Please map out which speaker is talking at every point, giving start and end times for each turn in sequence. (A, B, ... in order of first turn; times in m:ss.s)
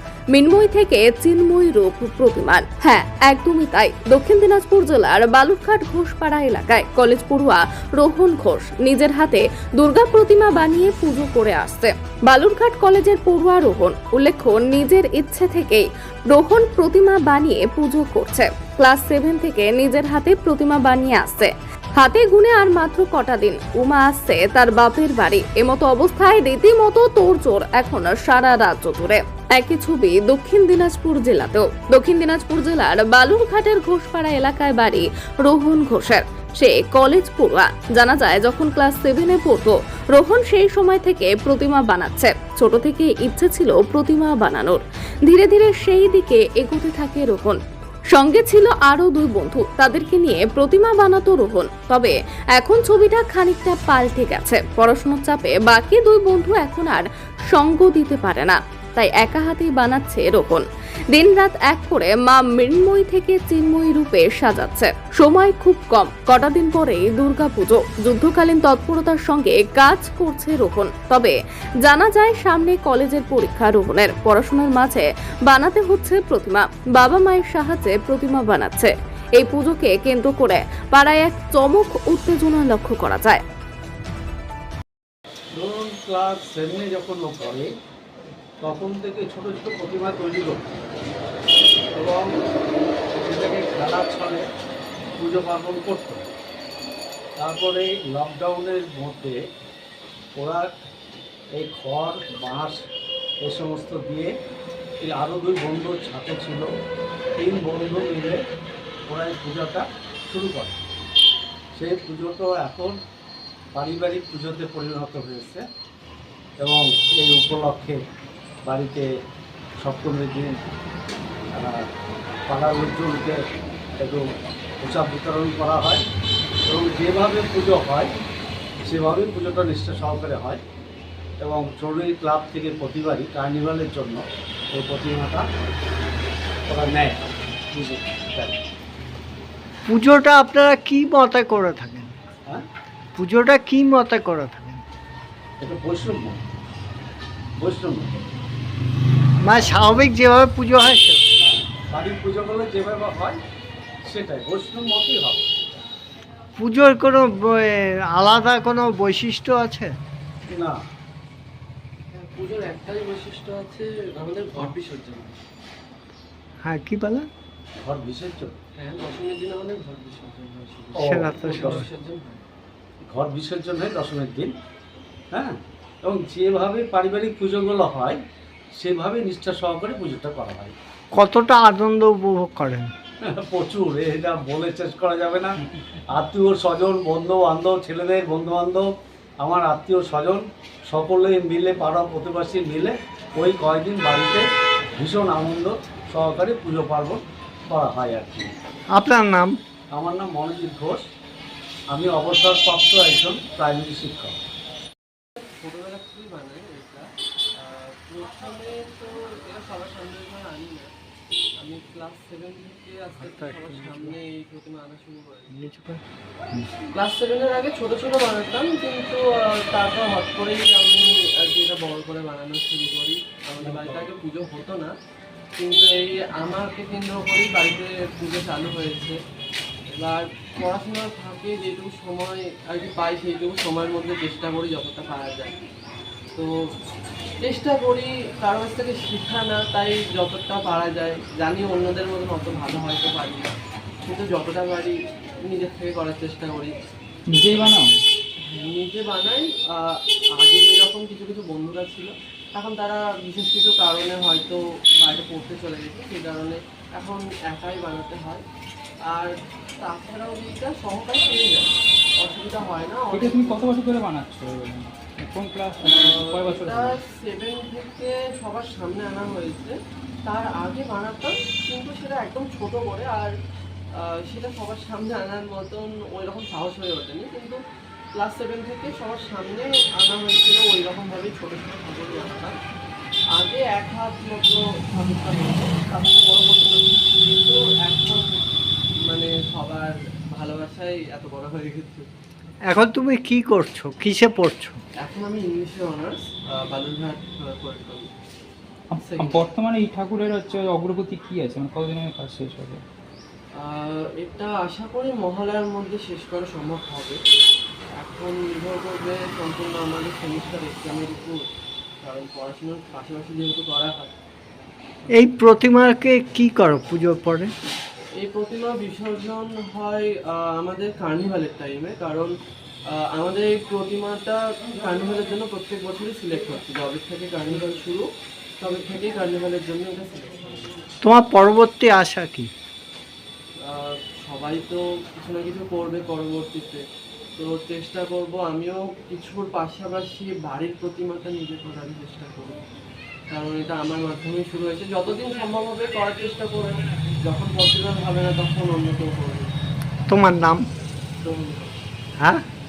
0:00.3-0:47.6 A
0:48.1-1:23.4 A
1:25.6-1:27.7 B
1:28.6-1:30.7 B
1:31.9-1:32.4 B
1:33.2-1:34.4 B
1:35.2-1:36.3 B
1:37.4-1:39.4 B
1:40.4-1:40.7 B
1:41.6-1:42.8 B
1:43.4-1:44.3 B
1:45.0-1:46.6 B
1:47.4-1:48.4 B
1:49.1-1:50.8 B
1:51.8-1:53.0 B
1:53.7-1:55.6 B
1:56.6-1:58.0 B
1:58.6-1:59.1 B
1:59.8-2:00.6 B
2:01.6-2:01.8 B
2:02.5-2:03.4 B
2:04.0-2:04.2 B
2:04.8-2:06.0 B
2:06.6-2:08.1 B
2:08.8-2:10.6 B
2:11.4-2:14.2 B
2:14.7-2:15.4 B
2:16.7-2:17.2 B
2:17.7-2:18.6 B
2:19.9-2:22.2 C
2:23.2-2:24.8 C
2:25.6-2:26.4 B
2:27.6-2:28.3 B
2:29.4-2:31.2 C
2:31.4-2:33.4 B
2:34.0-2:35.8 B
2:36.6-2:39.9 C
2:40.4-2:40.8 B
2:42.1-2:45.4 D
2:46.6-2:47.3 C
2:47.8-2:48.5 B
2:48.8-2:52.4 D
2:50.9-2:51.8 B
2:51.0-2:51.8 C
2:53.0-2:54.5 B
2:55.3-2:58.2 B
2:58.7-3:00.7 B
3:01.1-3:02.9 C
3:03.2-3:05.6 B
3:06.1-3:08.8 B
3:09.4-3:18.5 B
3:18.9-3:19.6 C
3:19.9-3:21.0 B
3:21.9-3:24.4 B
3:25.4-3:30.9 D
3:31.6-3:35.5 D
3:33.2-3:34.1 C
3:35.5-3:36.0 C
3:36.9-3:44.9 D
3:43.6-3:44.1 B
3:45.6-3:49.2 D
3:49.9-3:55.6 D
3:57.4-4:03.5 D
4:04.0-4:06.7 D
4:07.3-4:07.9 E
4:08.5-4:18.4 D
4:19.1-4:23.6 D
4:23.1-4:27.0 E
4:25.8-4:33.3 D
4:34.0-4:37.6 D
4:38.1-4:42.6 D
4:43.3-4:48.5 D
4:49.0-4:52.1 D
4:52.7-4:54.8 C
4:55.0-4:58.0 D
4:58.9-5:02.8 E
4:59.0-4:59.5 D
5:03.6-5:07.2 D
5:08.0-5:11.4 D
5:12.0-5:14.1 D
5:15.1-5:17.5 C
5:18.2-5:22.3 D
5:22.9-5:28.1 D
5:28.6-5:30.8 D
5:31.0-5:32.5 C
5:33.6-5:36.8 D
5:37.4-5:42.6 D
5:43.3-5:49.5 D
5:50.1-5:50.6 C
5:51.2-5:51.8 D
5:52.2-5:52.4 C